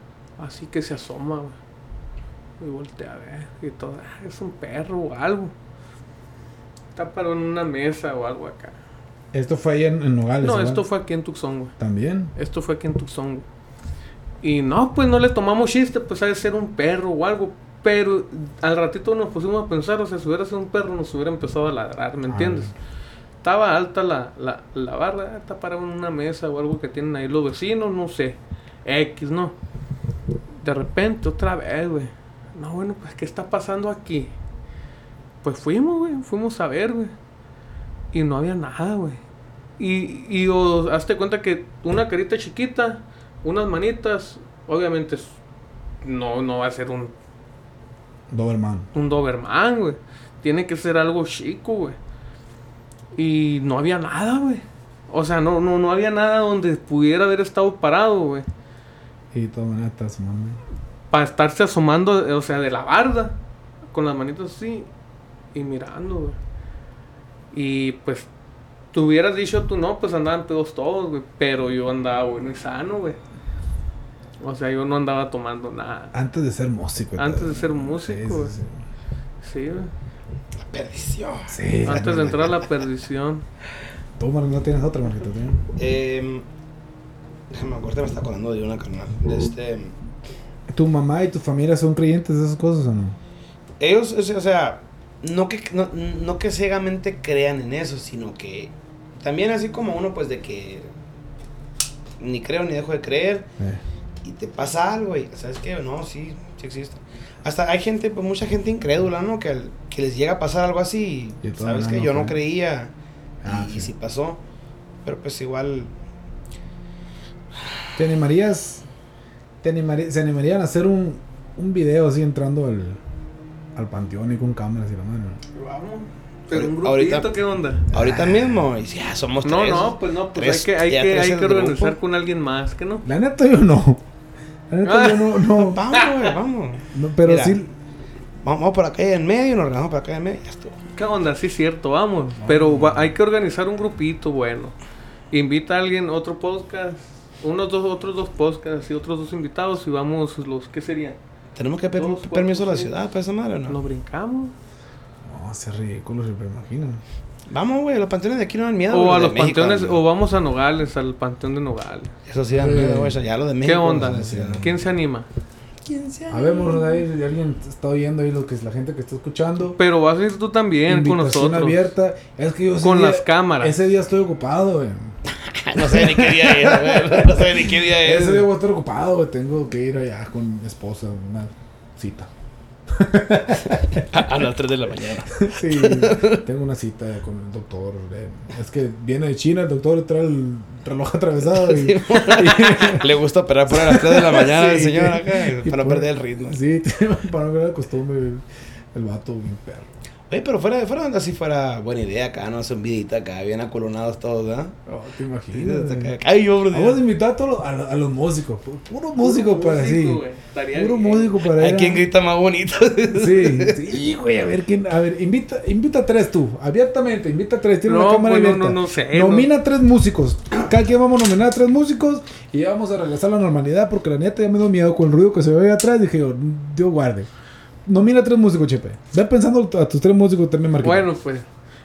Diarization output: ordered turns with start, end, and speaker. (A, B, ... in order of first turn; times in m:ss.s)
0:00.4-0:01.6 A
0:02.6-0:05.5 A
0:06.9-0:08.8 A
0:09.3-0:10.8 B
0:10.4-0:11.7 A
0:11.8-0:12.3 B
0:12.3-0:13.4 A
0:14.4-0:22.7 A
0:22.3-0:22.7 B
0:23.4-0:29.6 A
0:30.6-0:34.3 A
0:35.4-0:37.1 A
0:38.1-0:39.2 A
0:39.8-0:45.4 A
0:46.0-0:47.1 A
0:48.3-0:48.9 B
0:48.9-0:52.0 A
0:53.1-0:58.5 A
0:59.3-1:00.6 B
1:01.1-1:03.4 A
1:03.9-1:04.9 A
1:05.5-1:06.4 A
1:07.5-1:08.3 A
1:08.9-1:13.2 A
1:14.4-1:16.1 A
1:16.1-1:18.8 B
1:17.2-1:18.5 A
1:19.4-1:19.9 A
1:20.6-1:22.6 C
1:21.5-1:22.5 B
1:21.8-1:23.4 A
1:24.2-1:25.7 B
1:25.8-1:26.4 C
1:27.5-1:29.9 C
1:30.7-1:33.2 B
1:33.8-1:40.9 C
1:42.2-1:43.5 C
1:44.2-1:52.9 C
1:51.4-1:52.4 B
1:53.4-1:53.9 B
1:53.4-1:54.4 C
1:55.0-1:55.9 C
1:58.0-1:58.8 B
1:59.6-2:03.0 B
2:03.7-2:05.4 B
2:05.5-2:07.9 A
2:06.5-2:07.3 C
2:07.9-2:12.0 C
2:07.9-2:08.6 B
2:09.4-2:13.0 A
2:13.0-2:14.0 B
2:14.7-2:15.8 B
2:14.8-2:16.3 A
2:15.6-2:17.6 C
2:16.9-2:17.7 B
2:18.4-2:20.8 C
2:20.9-2:24.8 A
2:22.4-2:23.1 B
2:25.3-2:31.2 A
2:31.6-2:33.8 C
2:32.0-2:32.9 A
2:33.7-2:34.5 A
2:35.2-2:37.0 B
2:37.5-2:40.0 C
2:38.9-2:42.1 A
2:42.3-2:44.7 C
2:42.5-2:43.2 B
2:43.6-2:45.3 A
2:44.0-2:44.7 B
2:45.8-2:47.0 C
2:46.3-2:49.8 B
2:49.8-2:51.9 A
2:50.9-2:55.2 B
2:52.8-2:53.8 A
2:55.3-2:58.5 C
2:55.7-3:02.3 B
3:02.9-3:04.1 B
3:04.0-3:06.4 C
3:05.3-3:13.1 B
3:11.4-3:16.6 C
3:13.7-3:19.9 B
3:20.3-3:24.8 C
3:24.9-3:26.1 B
3:25.5-3:27.0 C
3:26.7-3:32.0 B
3:29.2-3:31.3 A
3:31.5-3:33.9 C
3:33.1-3:47.3 B
3:37.8-3:39.5 A
3:47.8-3:51.1 B
3:50.8-3:51.5 A